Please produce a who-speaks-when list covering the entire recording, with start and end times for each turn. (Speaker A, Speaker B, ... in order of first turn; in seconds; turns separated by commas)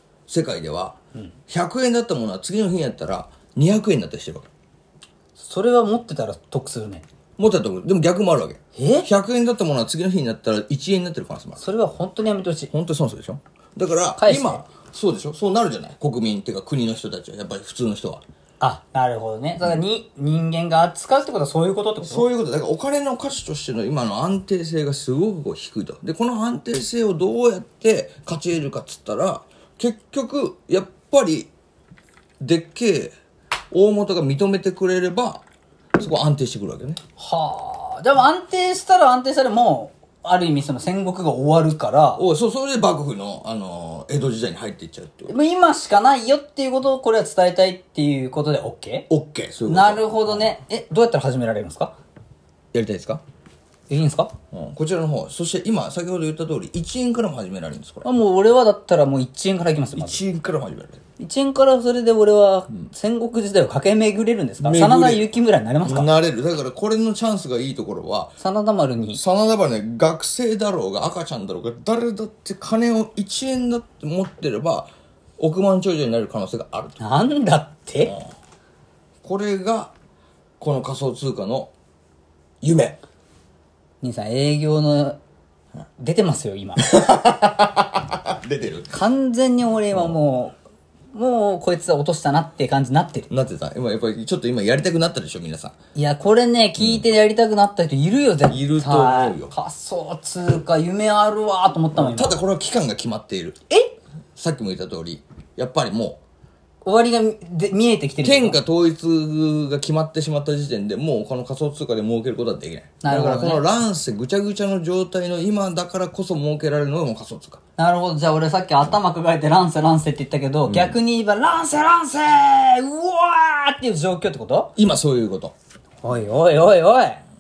Speaker A: 0.3-0.9, Speaker A: 1.5-4.5, Speaker B: 5.4-7.0, Speaker A: 7.4-11.6, Speaker B: 8.7-9.1, Speaker B: 11.6-12.7, Speaker A: 12.7-18.2, Speaker B: 14.2-14.6, Speaker B: 18.6-22.3, Speaker A: 22.0-31.5, Speaker A: 32.4-33.1, Speaker A: 33.7-35.4, Speaker A: 36.0-37.0, Speaker B: 37.2-42.2, Speaker A: 42.2-45.3, Speaker B: 45.3-49.1, Speaker A: 49.1-50.5, Speaker B: 49.7-51.9, Speaker A: 52.7-53.2, Speaker B: 53.9-54.3, Speaker A: 54.5-58.1, Speaker B: 58.0-60.2, Speaker A: 60.0-61.0, Speaker B: 61.2-66.1, Speaker A: 64.6-65.3, Speaker A: 65.8-68.3, Speaker B: 68.4-69.2, Speaker A: 69.1-77.0, Speaker B: 77.0-78.1, Speaker A: 79.2-79.9, Speaker A: 80.6-81.7, Speaker A: 82.6-83.0, Speaker B: 84.0-85.2, Speaker B: 86.0-86.9, Speaker A: 86.8-88.9, Speaker B: 88.9-90.5, Speaker A: 89.9-90.2, Speaker B: 91.1-93.3, Speaker A: 93.3-95.7, Speaker B: 95.9-102.4, Speaker A: 98.5-99.5, Speaker A: 101.9-103.6, Speaker A: 104.3-106.2, Speaker B: 106.8-108.6, Speaker A: 108.2-117.6, Speaker B: 113.0-113.6, Speaker B: 117.8-124.7, Speaker A: 120.7-121.0, Speaker A: 124.8-125.5, Speaker B: 126.0-127.2